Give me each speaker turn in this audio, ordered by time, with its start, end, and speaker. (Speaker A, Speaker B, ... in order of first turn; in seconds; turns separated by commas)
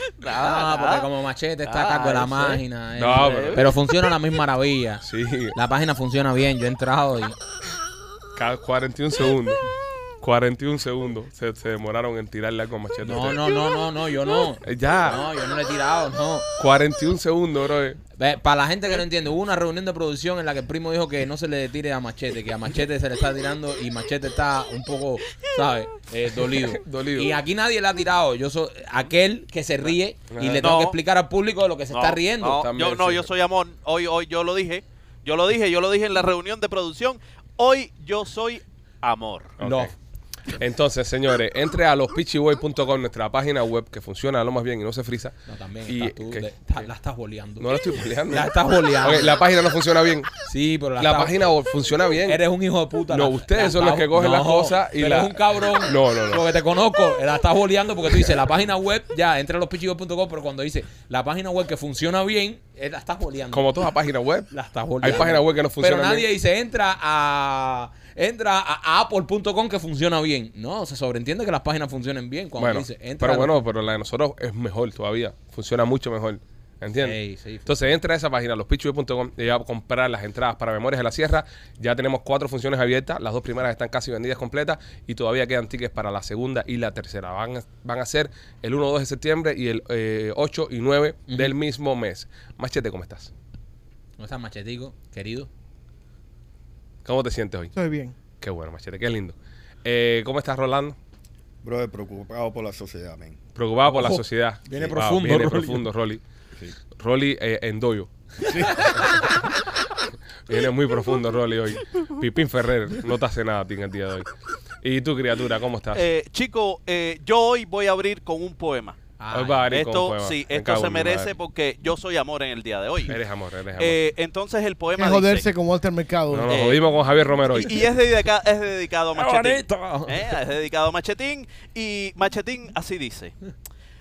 Speaker A: 0.2-1.1, Speaker B: 0.3-7.4, Speaker A: 1.7-3.7, Speaker C: 3.0-3.7, Speaker C: 5.0-5.6, Speaker C: 8.4-9.6, Speaker C: 10.2-13.6, Speaker B: 13.0-16.5, Speaker C: 14.6-15.2, Speaker C: 16.6-18.0, Speaker B: 18.2-32.6, Speaker C: 26.6-27.4, Speaker C: 30.3-30.6, Speaker A: 30.6-31.0, Speaker A: 31.9-39.6, Speaker C: 32.5-33.3, Speaker C: 39.6-39.9, Speaker B: 39.6-39.9, Speaker C: 40.5-45.4, Speaker B: 45.5-49.4, Speaker C: 45.9-46.9, Speaker C: 47.6-50.3, Speaker B: 50.5-51.4, Speaker C: 51.0-52.4, Speaker B: 52.3-63.7, Speaker C: 53.1-56.5, Speaker C: 63.5-64.5, Speaker B: 64.5-73.6, Speaker C: 65.0-66.3, Speaker C: 72.6-93.3, Speaker B: 77.0-77.8, Speaker B: 91.3-91.5, Speaker B: 94.2-95.5, Speaker C: 97.0-97.7, Speaker D: 97.8-98.1, Speaker C: 98.4-101.0, Speaker E: 101.6-103.4, Speaker C: 103.6-106.2, Speaker B: 104.0-105.9, Speaker C: 106.9-108.1, Speaker E: 108.5-108.9, Speaker C: 110.5-114.3, Speaker C: 114.8-116.0, Speaker A: 115.9-119.0, Speaker B: 119.2-119.8, Speaker C: 119.3-121.3, Speaker A: 119.7-123.2, Speaker C: 123.1-124.0, Speaker A: 123.8-125.5, Speaker D: 125.0-126.6, Speaker C: 126.3-127.8, Speaker A: 126.5-126.8, Speaker A: 127.5-133.3, Speaker B: 129.2-130.3